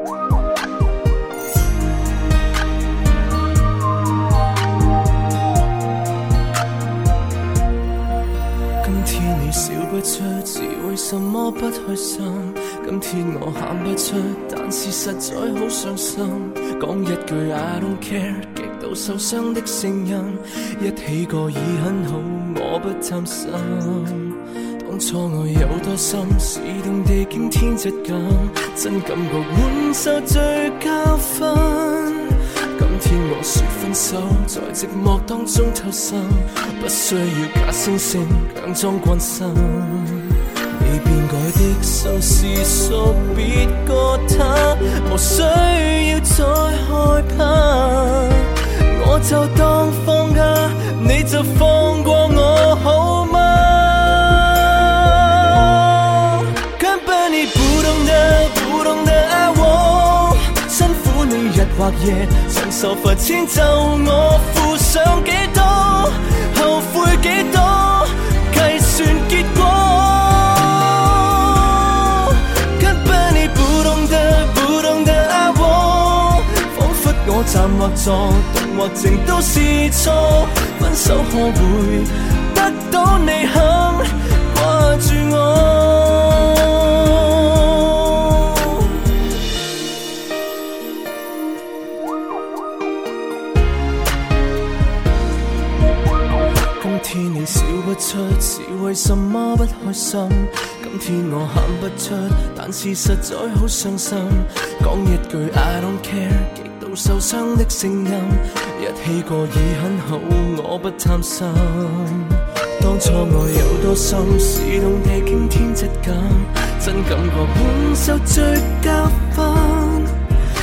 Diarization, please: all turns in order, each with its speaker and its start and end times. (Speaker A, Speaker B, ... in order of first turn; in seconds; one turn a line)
Speaker A: 8.8-89.0
Speaker A: 96.8-120.2